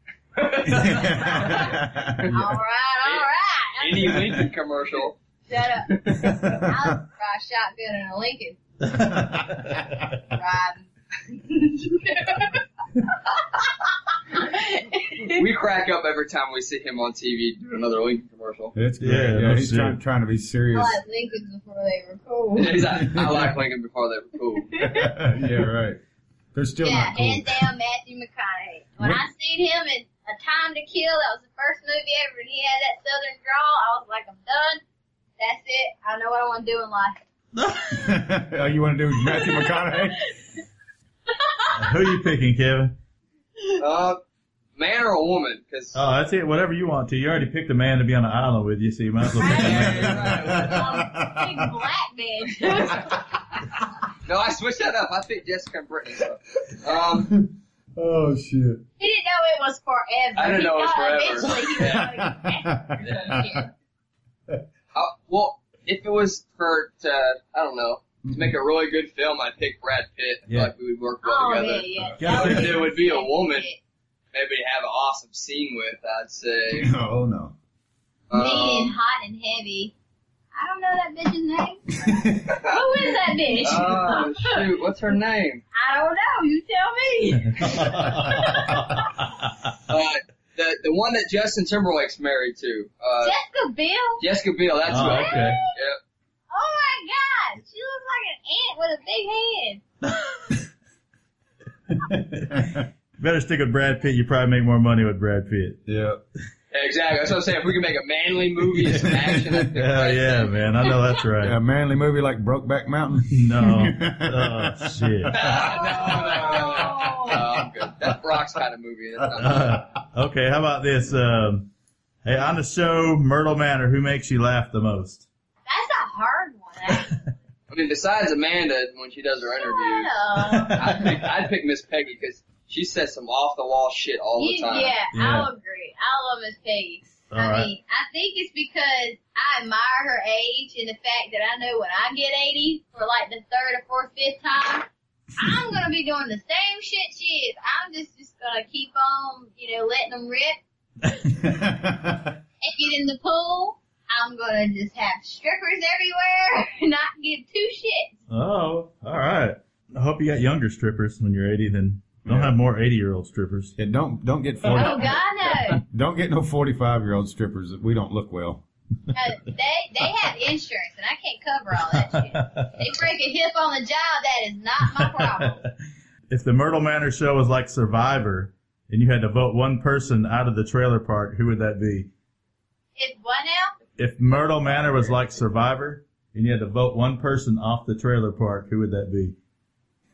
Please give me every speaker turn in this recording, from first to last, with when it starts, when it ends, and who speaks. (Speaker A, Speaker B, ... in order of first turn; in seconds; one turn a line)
Speaker A: 0.3-2.3
Speaker B: 0.6-2.6
Speaker C: 1.2-1.7
Speaker C: 2.3-4.2
Speaker A: 3.8-5.2
Speaker C: 5.5-8.6
Speaker A: 5.9-6.4
Speaker B: 6.2-6.9
Speaker D: 8.8-10.2
Speaker B: 9.1-9.3
Speaker C: 10.3-15.4
Speaker A: 15.3-18.7
Speaker B: 18.7-21.0
Speaker D: 19.0-20.0
Speaker C: 20.7-22.9
Speaker A: 22.6-24.7
Speaker B: 23.1-23.5
Speaker C: 24.7-25.1
Speaker B: 24.8-26.0
Speaker B: 26.5-27.7
Speaker C: 26.8-34.8
Speaker C: 35.4-37.2
Speaker D: 37.5-38.1
Speaker B: 37.9-40.2
Speaker C: 39.3-40.3
Speaker C: 41.3-42.1
Speaker D: 41.7-42.9
Speaker A: 43.8-44.2
Speaker A: 44.8-46.0
Speaker D: 45.9-50.6
Speaker C: 49.4-49.9
Speaker A: 49.4-50.8
Speaker B: 49.5-51.7
Speaker C: 50.6-53.2
Speaker A: 54.2-57.3
Speaker B: 56.7-58.8
Speaker C: 59.0-63.7
Speaker A: 60.4-62.1
Speaker B: 61.8-63.6
Speaker A: 63.0-63.4
Speaker A: 64.9-73.7
Speaker B: 68.2-68.5
Speaker C: 71.2-73.8
Speaker D: 72.2-72.8
Speaker A: 74.3-76.9
Speaker B: 76.7-77.5
Speaker A: 78.3-78.9
Speaker C: 78.3-79.9
Speaker C: 80.5-84.6
Speaker B: 82.0-82.6
Speaker A: 82.5-82.8
Speaker A: 83.5-85.6
Speaker C: 85.7-89.0
Speaker D: 87.5-89.7
Speaker A: 89.9-93.3
Speaker C: 93.2-94.2
Speaker A: 94.2-96.0
Speaker D: 94.8-95.6
Speaker C: 94.9-95.7
Speaker C: 96.5-99.8
Speaker B: 102.0-102.8
Speaker D: 103.2-105.8
Speaker B: 105.8-106.2
Speaker A: 106.7-110.7
Speaker B: 108.8-109.6
Speaker D: 109.7-111.6
Speaker B: 111.4-117.7
Speaker D: 113.3-115.3
Speaker A: 115.3-119.8
Speaker C: 115.5-117.4
Speaker D: 119.3-121.7
Speaker D: 122.2-125.2
Speaker C: 125.7-127.2
Speaker A: 127.7-130.1
Speaker C: 129.6-130.9
Speaker D: 130.5-131.1
Speaker A: 130.7-134.9
Speaker C: 134.4-150.6
Speaker D: 135.1-135.5
Speaker D: 137.3-137.7
Speaker B: 151.4-152.3
Speaker C: 152.6-158.1
Speaker D: 158.3-163.7
Speaker B: 162.2-162.5
Speaker B: 163.8-165.2
Speaker C: 164.7-165.8
Speaker B: 165.8-168.6
Speaker C: 169.1-175.6
Speaker D: 171.9-172.8
Speaker D: 175.0-175.7
Speaker D: 176.3-182.1
Speaker C: 182.9-183.7
Speaker D: 184.0-189.3
Speaker A: 184.4-185.2